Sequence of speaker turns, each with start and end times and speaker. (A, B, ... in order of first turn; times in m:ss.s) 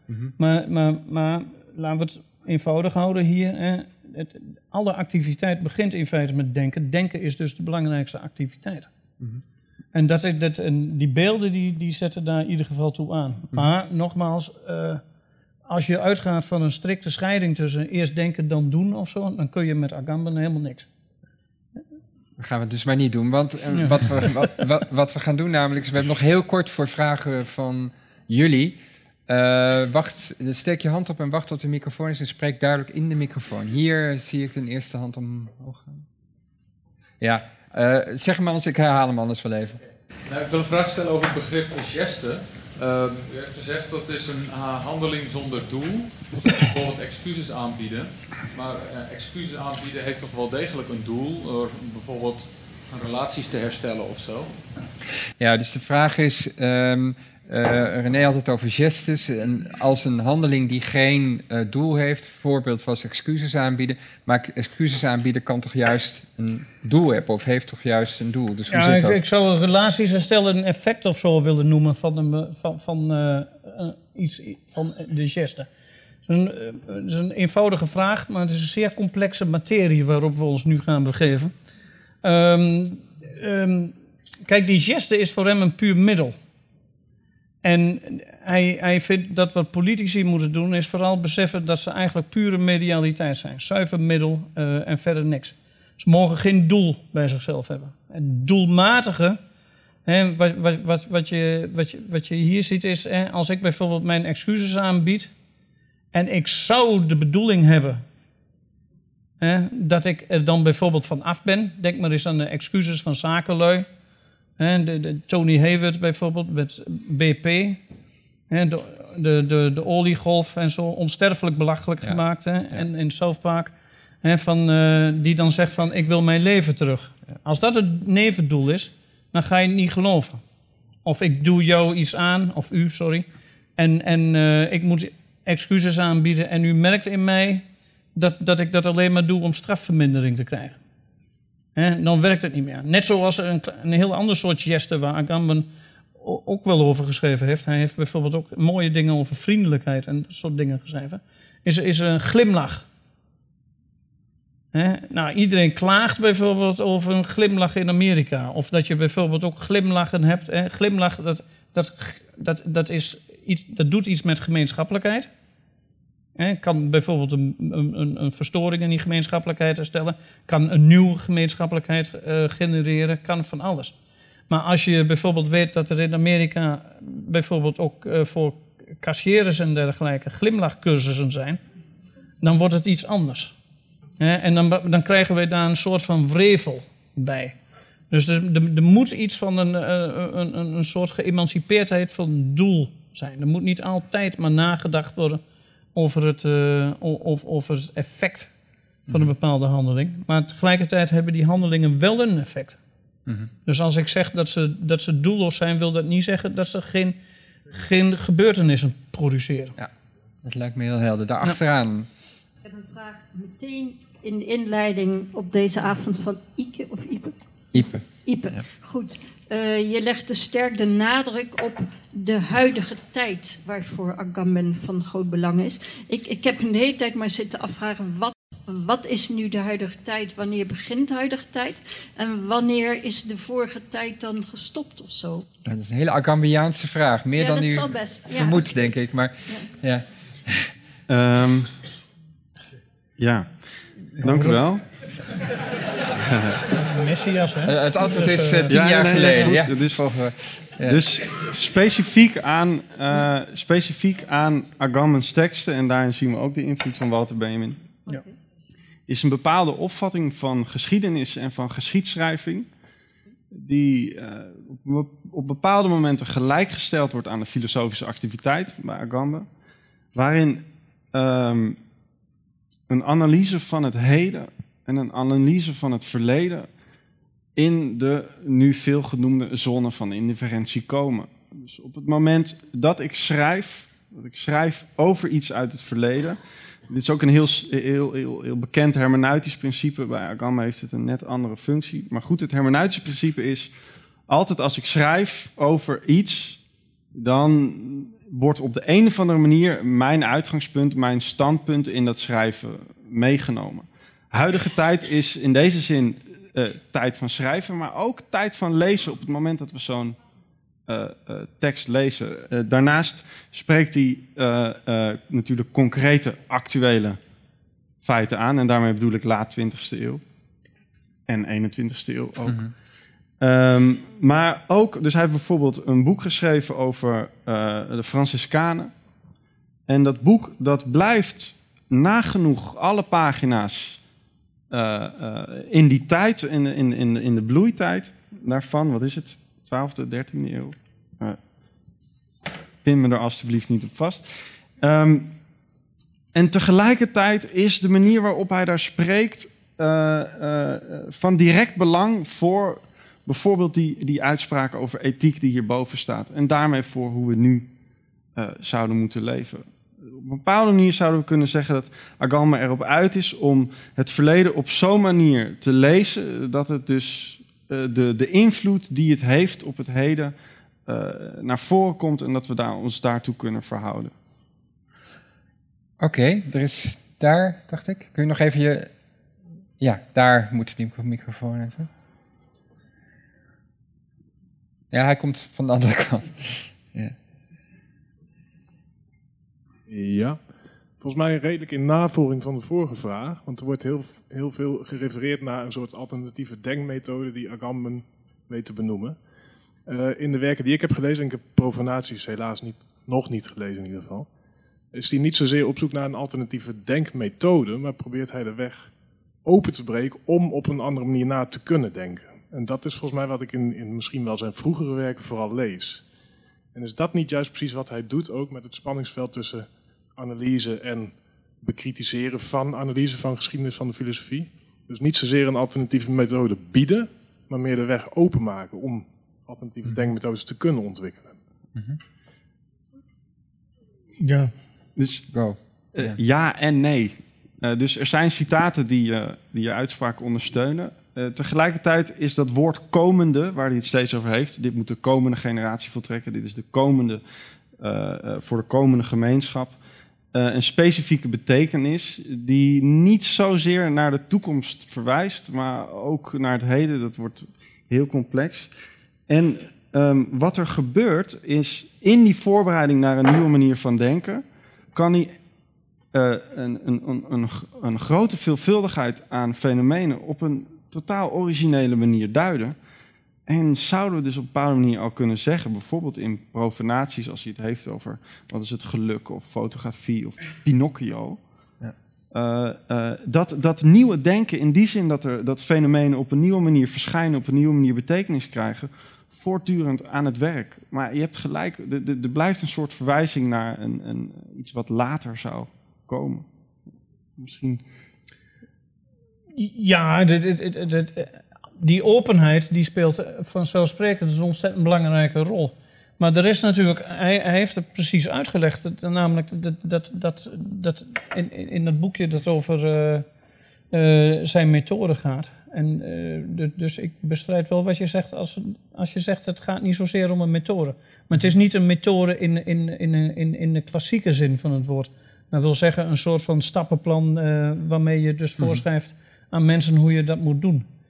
0:00.4-0:08.9 A
0:09.9-0:15.0 A
0:15.7-0:20.9 A
0:22.4-0:36.1 B
0:37.2-0:39.8 B
0:40.3-0:54.6 C
0:55.4-1:09.2 B
1:08.7-1:15.7 A
1:16.3-1:21.5 A
1:22.2-1:23.9 A
1:24.5-1:26.4 A
1:27.6-1:39.4 A
1:40.1-1:45.3 A
1:46.1-1:48.0 A
1:49.4-1:53.9 A
1:54.6-1:57.8 A
1:58.5-2:10.4 A
2:11.0-2:17.6 A
2:18.2-2:20.8 A
2:21.8-2:32.9 A
2:34.7-2:45.3 A
2:46.4-2:54.0 A
2:54.5-3:01.6 A
3:02.4-3:03.6 A
3:04.2-3:07.6 A
3:08.1-3:15.4 A
3:16.0-3:18.5 A
3:19.1-3:22.8 A
3:23.7-3:27.2 A
3:27.7-3:29.8 A
3:30.4-3:32.1 B
3:32.6-3:37.4 D
3:37.7-3:38.6 B
3:38.1-3:55.5 D
3:55.7-4:00.7 B
3:57.4-3:58.7 D
4:01.1-4:01.7 E
4:03.2-4:03.5 E
4:04.2-4:04.8 E
4:04.2-4:04.6 A
4:06.7-4:09.6 A
4:07.7-4:11.0 B
4:08.7-4:10.1 E
4:10.8-4:18.0 E
4:19.1-4:22.7 E
4:23.5-4:29.5 E
4:30.2-4:31.8 E
4:32.9-4:36.7 E
4:37.6-4:53.7 E
4:54.3-4:56.6 E
4:57.1-5:10.2 E
5:10.9-5:17.2 E
5:18.0-5:20.2 E
5:21.3-5:22.6 E
5:23.4-5:28.9 E
5:29.9-5:34.0 E
5:34.7-5:41.4 E
5:42.8-5:45.3 E
5:46.3-5:57.7 E
5:58.4-6:10.4 E
6:10.9-6:14.1 E
6:16.0-6:18.9 B
6:19.8-6:21.9 B
6:24.9-6:27.2 B
6:29.9-6:30.4 F
6:31.0-6:39.2 F
6:39.9-6:44.3 F
6:44.9-6:48.9 F
6:49.4-6:56.0 F
6:56.7-7:11.4 F
7:14.2-7:14.5 A
7:15.0-7:15.3 E
7:15.3-7:16.2 B
7:16.0-7:27.2 E
7:27.8-7:29.8 E
7:30.3-7:38.7 E
7:39.3-7:45.4 E
7:46.1-7:52.8 E
7:53.5-8:01.4 E
8:02.3-8:16.5 E
8:17.4-8:17.8 E
8:19.6-8:33.3 A
8:33.9-8:50.9 A